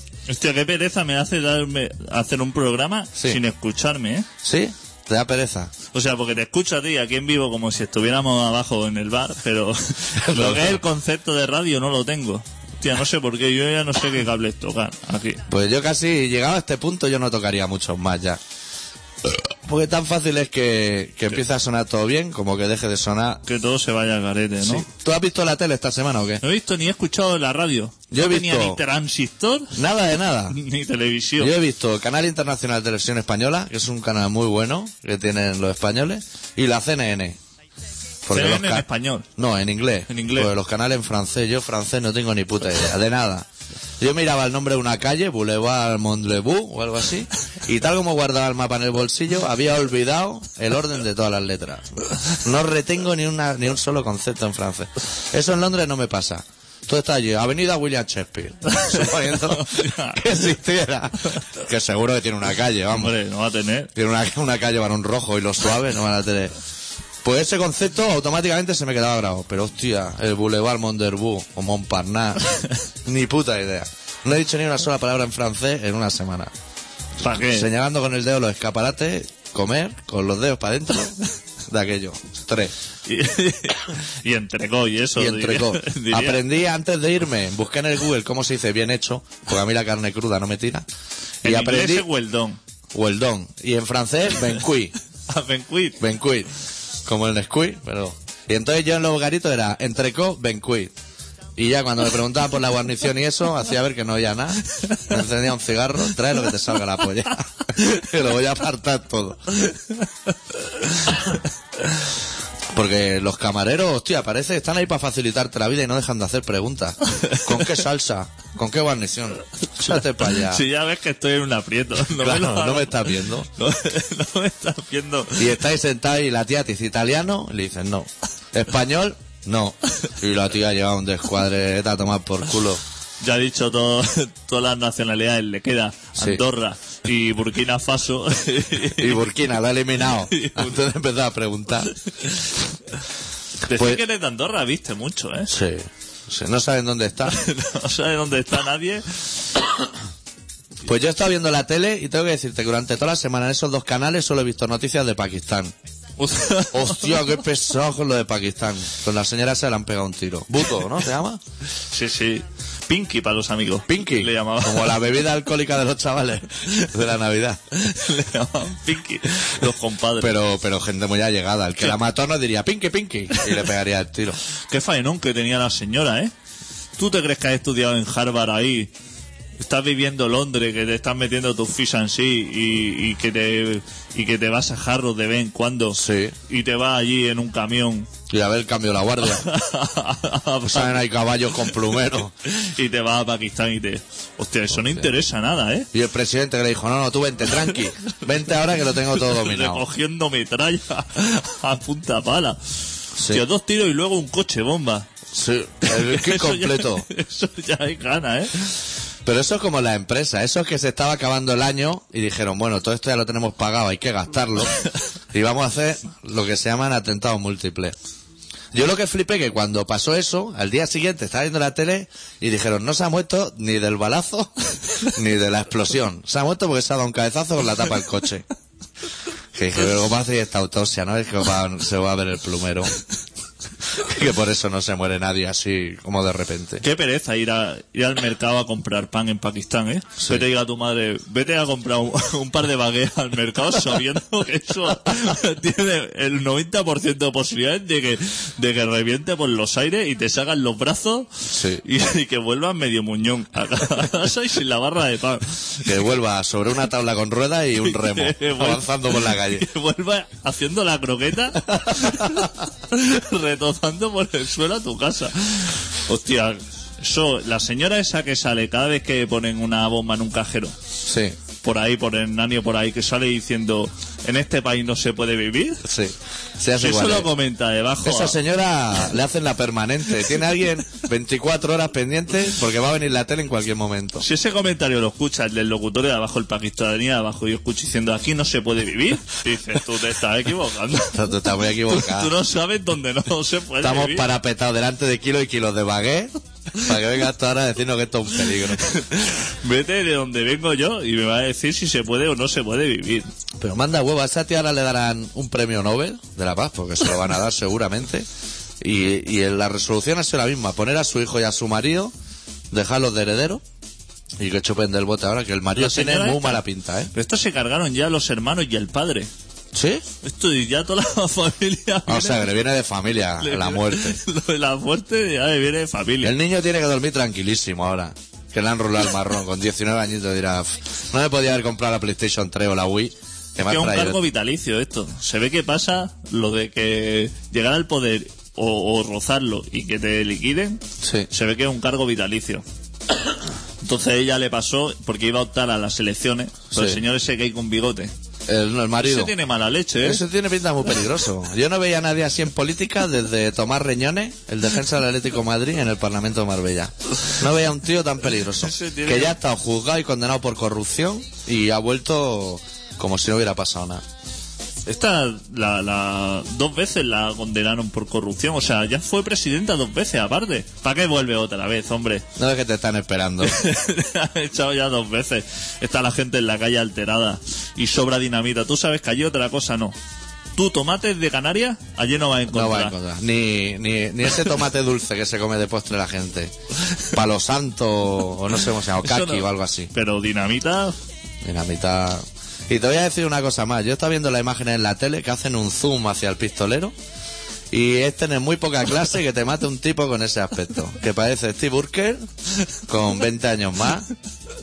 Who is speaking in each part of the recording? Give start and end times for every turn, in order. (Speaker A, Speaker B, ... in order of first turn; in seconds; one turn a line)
Speaker A: 0.3-4.3
Speaker B: 3.1-3.4
Speaker B: 4.4-5.7
Speaker A: 5.9-15.4
Speaker B: 10.2-10.8
Speaker B: 15.5-18.4
Speaker B: 19.2-23.4
Speaker A: 23.4-24.9
Speaker B: 24.6-26.4
Speaker A: 26.4-29.8
Speaker B: 28.1-28.8
Speaker B: 29.7-30.6
Speaker A: 30.5-31.5
Speaker B: 31.4-37.4
Speaker B: 38.2-43.5
Speaker A: 38.3-39.3
Speaker A: 40.1-40.5
Speaker B: 44.0-63.1
Speaker A: 58.7-60.2
Speaker A: 62.9-63.9
Speaker B: 63.9-66.5
Speaker B: 67.2-76.5
Speaker A: 77.2-77.7
Speaker B: 77.3-82.7
Speaker A: 83.0-86.4
Speaker B: 85.2-90.8
Speaker B: 91.4-92.1
Speaker A: 91.4-92.6
Speaker B: 92.9-94.9
Speaker A: 95.3-96.0
Speaker B: 96.0-96.5
Speaker B: 97.0-100.9
Speaker B: 101.5-109.6
Speaker B: 112.7-120.6
Speaker A: 117.1-117.7
Speaker A: 119.8-125.5
Speaker B: 122.1-123.5
Speaker B: 125.4-132.8
Speaker A: 133.2-139.2
Speaker B: 136.2-136.4
Speaker B: 138.9-141.9
Speaker A: 140.3-140.8
Speaker A: 143.6-145.5
Speaker B: 143.8-144.0
Speaker B: 145.5-147.4
Speaker A: 147.3-149.3
Speaker B: 150.8-155.7
Speaker A: 156.2-157.3
Speaker B: 156.7-161.4
Speaker A: 161.9-165.0
Speaker B: 163.9-167.6
Speaker A: 167.7-170.3
Speaker B: 170.2-174.4
Speaker A: 174.7-176.3
Speaker A: 177.0-178.9
Speaker A: 179.6-188.1
Speaker B: 185.9-186.3
Speaker B: 188.3-189.4
Speaker A: 189.3-191.0
Speaker B: 190.6-192.3
Speaker A: 192.4-195.9
Speaker B: 194.7-195.1
Speaker B: 195.9-199.8
Speaker A: 199.1-202.6
Speaker B: 203.2-203.4
Speaker A: 203.3-205.1
Speaker B: 205.3-207.1
Speaker A: 205.8-208.7
Speaker B: 209.2-214.8
Speaker B: 215.3-217.9
Speaker B: 218.7-228.4
Speaker B: 229.5-232.9
Speaker B: 234.0-236.8
Speaker A: 236.8-255.9
Speaker B: 251.5-251.8
Speaker B: 255.8-259.7
Speaker A: 257.8-270.8
Speaker B: 261.9-262.4
Speaker B: 271.0-271.4
Speaker A: 271.6-275.8
Speaker B: 275.8-277.3
Speaker A: 276.8-278.4
Speaker B: 278.0-284.2
Speaker A: 284.2-291.3
Speaker B: 291.1-292.3
Speaker A: 291.9-294.3
Speaker B: 293.8-299.0
Speaker A: 298.8-303.3
Speaker B: 303.6-308.3
Speaker B: 308.8-312.1
Speaker B: 312.7-313.6
Speaker B: 314.4-317.1
Speaker A: 315.8-316.6
Speaker A: 317.1-319.3
Speaker B: 319.7-320.0
Speaker A: 320.2-322.5
Speaker B: 322.1-324.2
Speaker A: 323.4-326.3
Speaker B: 326.2-334.2
Speaker A: 333.6-342.6
Speaker B: 341.0-341.3
Speaker A: 343.8-348.1
Speaker B: 346.7-347.0
Speaker B: 348.5-349.3
Speaker A: 349.0-350.2
Speaker B: 350.0-364.0
Speaker A: 358.6-359.3
Speaker A: 364.8-372.2
Speaker B: 372.4-373.6
Speaker A: 373.4-379.9
Speaker A: 380.5-382.9
Speaker B: 382.5-386.5
Speaker B: 387.1-389.9
Speaker A: 389.0-391.0
Speaker B: 391.4-396.9
Speaker B: 397.7-402.3
Speaker B: 402.9-404.1